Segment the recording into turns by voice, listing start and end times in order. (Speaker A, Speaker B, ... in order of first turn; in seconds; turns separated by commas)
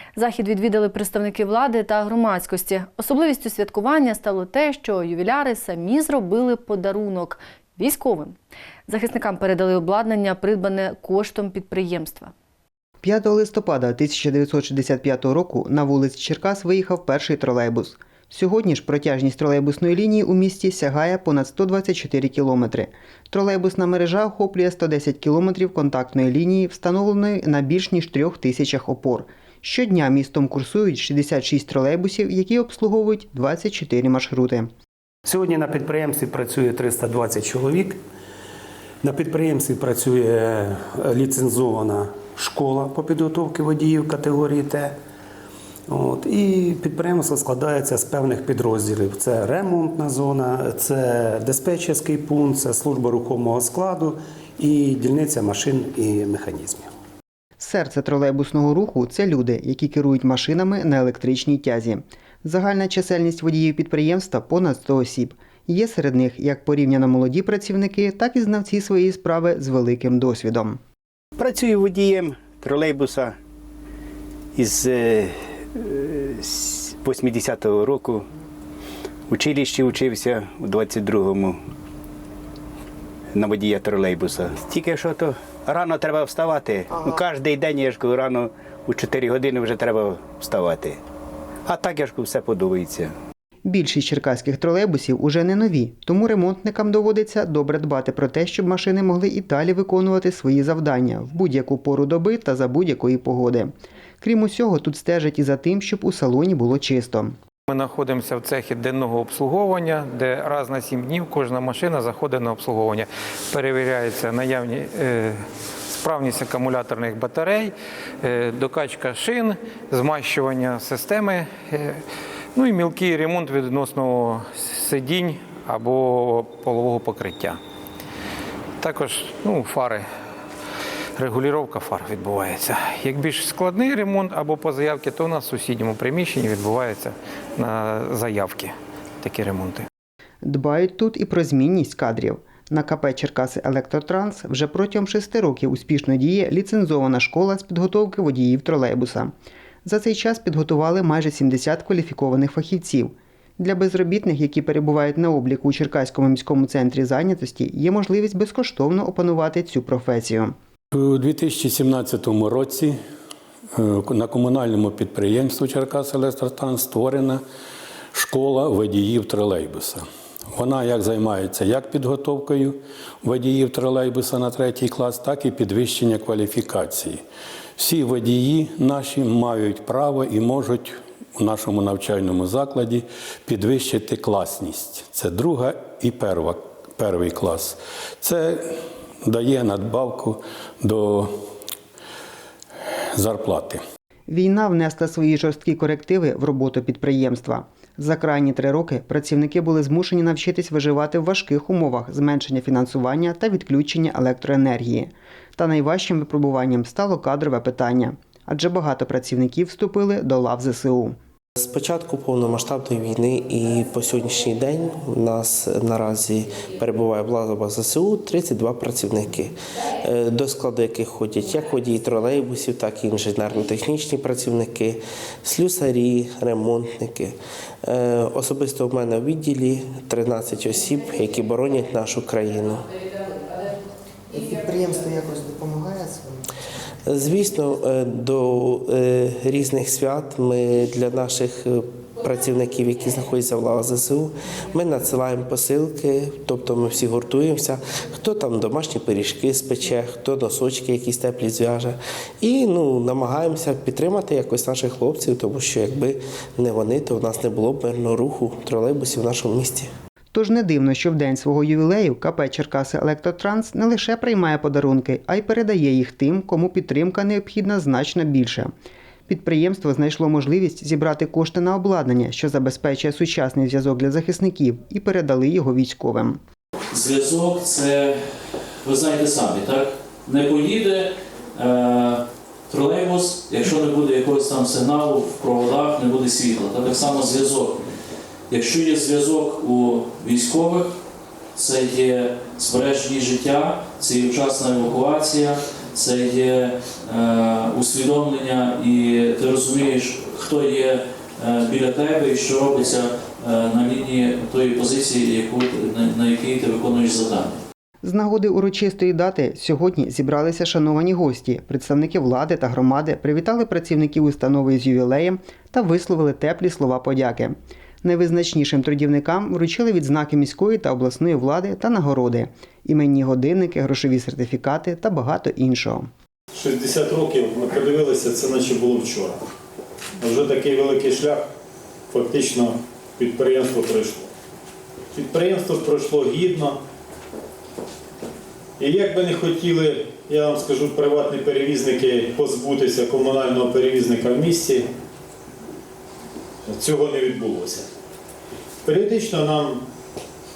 Speaker A: 0.2-8.4, Speaker A: 8.9-12.3, Speaker B: 13.0-34.7, Speaker C: 35.3-38.0, Speaker C: 39.0-45.0, Speaker C: 45.9-56.9, Speaker B: 57.6-70.8, Speaker D: 71.4-73.3, Speaker D: 74.6-78.2, Speaker D: 79.3-81.6, Speaker D: 83.4-91.0, Speaker D: 91.7-93.1, Speaker B: 93.7-107.3, Speaker E: 107.7-122.0, Speaker E: 122.5-127.6, Speaker E: 128.8-130.1, Speaker E: 131.2-139.9, Speaker B: 140.4-149.3, Speaker B: 149.8-160.5, Speaker F: 160.9-163.0, Speaker F: 163.8-167.4, Speaker F: 168.1-177.2, Speaker F: 177.8-188.6, Speaker F: 189.2-191.3, Speaker F: 193.2-193.8, Speaker B: 194.3-211.1, Speaker G: 211.6-232.9, Speaker B: 234.3-236.4, Speaker G: 237.1-259.9, Speaker B: 260.3-268.7, Speaker B: 269.3-276.4, Speaker H: 276.9-278.2, Speaker H: 278.8-287.8, Speaker H: 288.5-290.9, Speaker H: 291.6-307.6, Speaker B: 308.0-326.1, Speaker I: 326.5-329.4, Speaker I: 330.2-331.5, Speaker I: 332.1-334.3, Speaker I: 335.1-336.8, Speaker I: 338.8-344.9, Speaker I: 346.7-347.9, Speaker I: 348.9-349.8